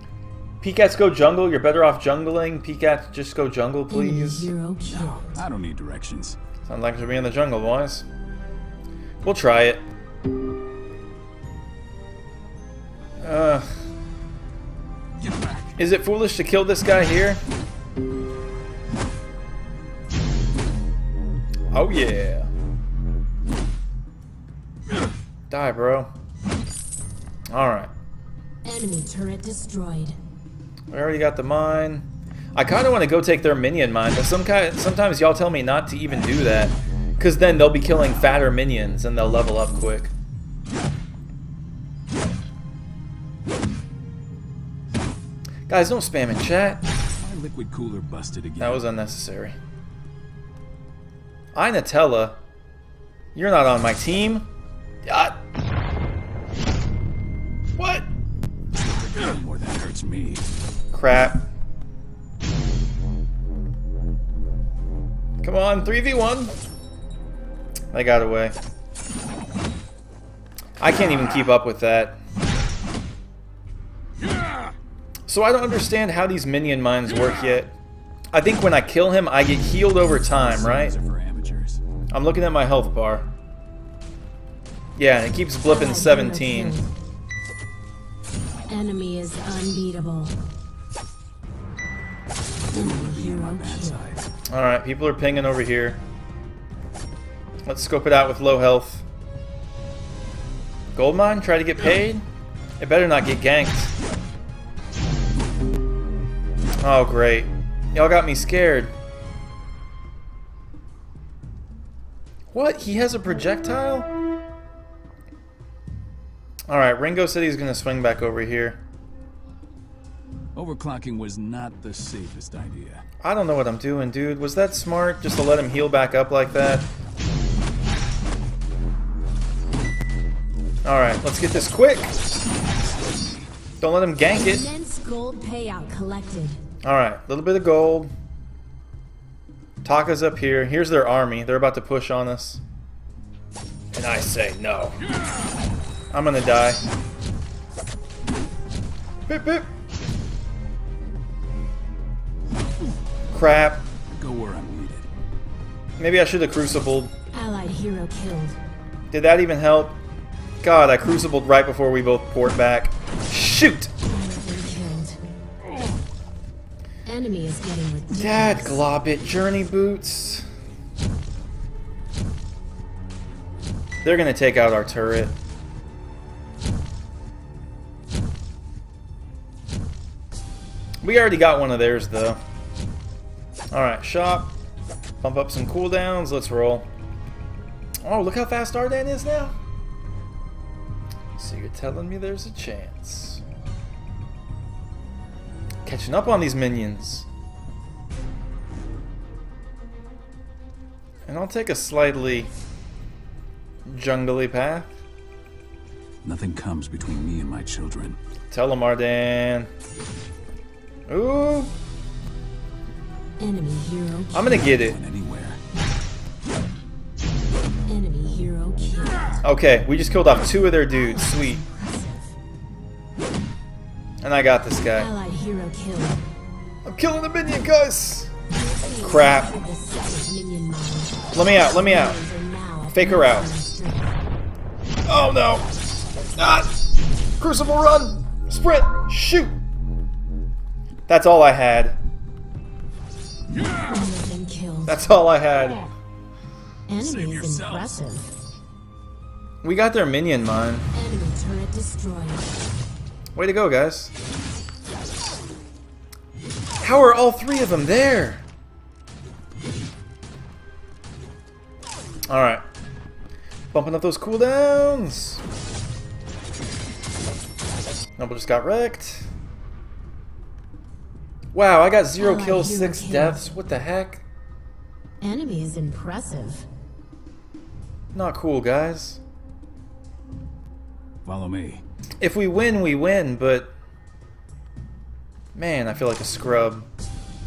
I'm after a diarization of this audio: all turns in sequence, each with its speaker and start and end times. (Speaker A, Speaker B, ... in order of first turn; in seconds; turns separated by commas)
Speaker A: 0.6-4.5, Speaker B: 3.9-5.4, Speaker C: 4.9-6.4, Speaker A: 6.7-8.1, Speaker A: 9.2-9.8, Speaker A: 13.2-13.7, Speaker C: 15.2-15.8, Speaker A: 15.8-17.4, Speaker A: 21.7-22.5, Speaker A: 25.5-26.1, Speaker A: 27.5-27.9, Speaker B: 28.6-30.2, Speaker A: 30.9-40.1, Speaker A: 45.7-46.8, Speaker C: 47.2-48.8, Speaker A: 48.6-49.6, Speaker A: 51.5-52.4, Speaker A: 53.4-54.5, Speaker A: 55.1-55.4, Speaker A: 57.8-58.1, Speaker C: 58.7-60.5, Speaker A: 60.9-61.5, Speaker A: 65.4-66.5, Speaker A: 67.9-68.5, Speaker A: 70.8-72.2, Speaker A: 75.3-77.7, Speaker A: 78.3-80.9, Speaker C: 80.0-81.8, Speaker A: 82.1-83.3, Speaker A: 85.0-86.8, Speaker B: 85.7-86.9, Speaker B: 88.7-90.4, Speaker B: 92.7-94.0, Speaker C: 92.7-94.3, Speaker A: 94.5-96.0, Speaker A: 97.7-99.0, Speaker A: 101.0-102.2, Speaker A: 102.8-103.9, Speaker A: 106.8-108.9, Speaker A: 112.5-114.1, Speaker A: 116.7-118.8, Speaker C: 120.5-123.0, Speaker A: 123.2-126.9, Speaker A: 130.8-132.2, Speaker C: 132.6-133.4, Speaker A: 133.8-134.7, Speaker B: 134.3-136.6, Speaker A: 136.8-138.1, Speaker A: 139.8-142.6, Speaker A: 143.9-145.0, Speaker A: 146.1-146.8, Speaker A: 149.3-149.7, Speaker A: 153.3-153.8, Speaker C: 154.1-155.1, Speaker A: 156.0-157.1, Speaker B: 157.3-158.6, Speaker A: 159.1-160.0, Speaker A: 160.6-163.9, Speaker B: 164.0-165.2, Speaker B: 167.1-168.8, Speaker A: 168.1-170.5, Speaker A: 174.0-175.3, Speaker A: 181.0-182.4, Speaker A: 183.7-184.5, Speaker A: 185.2-186.9, Speaker A: 188.0-189.6, Speaker A: 191.4-193.4, Speaker A: 195.8-197.3, Speaker A: 201.3-202.5, Speaker A: 203.9-204.9, Speaker C: 206.2-208.2, Speaker A: 208.5-209.7, Speaker A: 211.1-211.7, Speaker B: 213.4-214.6, Speaker A: 214.3-215.0, Speaker C: 214.5-215.6, Speaker B: 217.9-219.4, Speaker A: 219.4-221.6, Speaker B: 220.6-222.3, Speaker A: 224.2-225.1, Speaker B: 224.9-226.2, Speaker A: 226.8-228.3, Speaker B: 228.5-234.2, Speaker A: 229.0-229.5, Speaker A: 231.3-232.2, Speaker A: 232.9-233.6, Speaker A: 235.1-235.7, Speaker A: 236.4-236.7, Speaker A: 237.4-239.5, Speaker A: 241.1-242.0, Speaker B: 243.9-245.0, Speaker A: 244.9-245.9, Speaker B: 246.9-248.3, Speaker C: 247.0-248.1, Speaker A: 249.6-250.9, Speaker B: 250.9-252.5, Speaker A: 253.3-254.1, Speaker A: 256.8-258.4, Speaker A: 262.3-262.6, Speaker A: 263.7-265.4, Speaker A: 268.2-269.3, Speaker A: 271.5-274.2, Speaker B: 272.2-273.5, Speaker B: 275.2-276.7, Speaker A: 278.1-279.2, Speaker C: 281.2-281.8, Speaker A: 282.2-283.7, Speaker A: 285.6-286.9